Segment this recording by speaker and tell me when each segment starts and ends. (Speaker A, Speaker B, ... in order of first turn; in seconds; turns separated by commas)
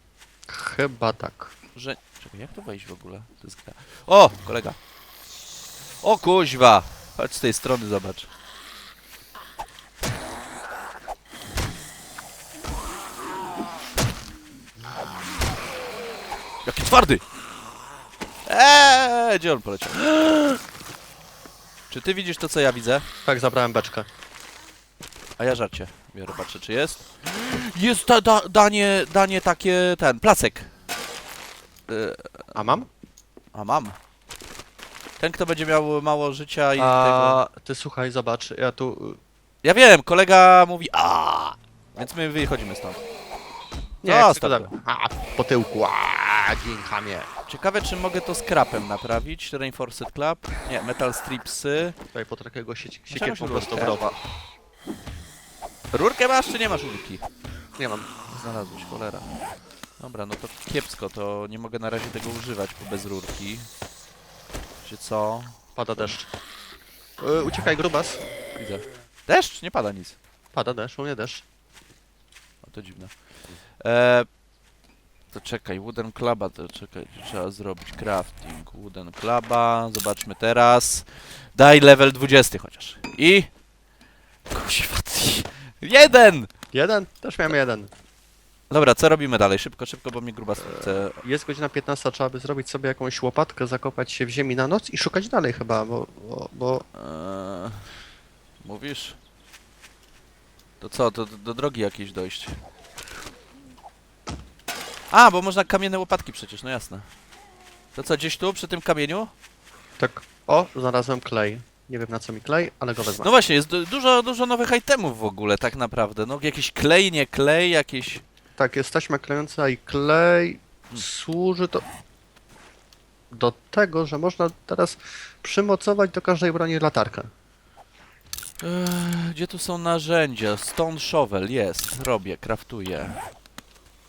Speaker A: 0.5-1.5, Speaker B: 1.8-4.8, Speaker B: 6.0-8.3, Speaker B: 16.6-17.2, Speaker B: 18.5-20.0, Speaker B: 21.9-23.1, Speaker A: 23.2-24.1, Speaker B: 25.4-30.7, Speaker B: 31.9-32.5, Speaker A: 32.5-32.9, Speaker B: 33.5-34.0, Speaker B: 35.2-37.4, Speaker A: 36.8-39.2, Speaker B: 39.6-43.0, Speaker A: 44.0-47.3, Speaker B: 44.0-44.7, Speaker B: 47.5-52.0, Speaker A: 52.1-54.2, Speaker B: 53.1-54.0, Speaker B: 55.9-57.2, Speaker A: 57.8-58.1, Speaker B: 58.3-59.3, Speaker B: 60.0-63.7, Speaker B: 64.8-66.1, Speaker A: 65.8-66.3, Speaker A: 67.2-68.2, Speaker B: 68.6-70.2, Speaker A: 70.5-71.4, Speaker B: 72.6-73.2, Speaker B: 73.8-74.3, Speaker B: 75.3-83.5, Speaker B: 84.5-86.5, Speaker A: 86.7-87.9, Speaker B: 88.7-91.2, Speaker A: 90.6-96.8, Speaker B: 97.0-97.9, Speaker B: 98.6-99.2, Speaker B: 100.8-102.6, Speaker B: 105.1-107.1, Speaker B: 108.0-109.3, Speaker A: 110.0-113.3, Speaker B: 113.2-118.2, Speaker A: 118.6-121.8, Speaker A: 123.3-127.3, Speaker B: 128.6-133.2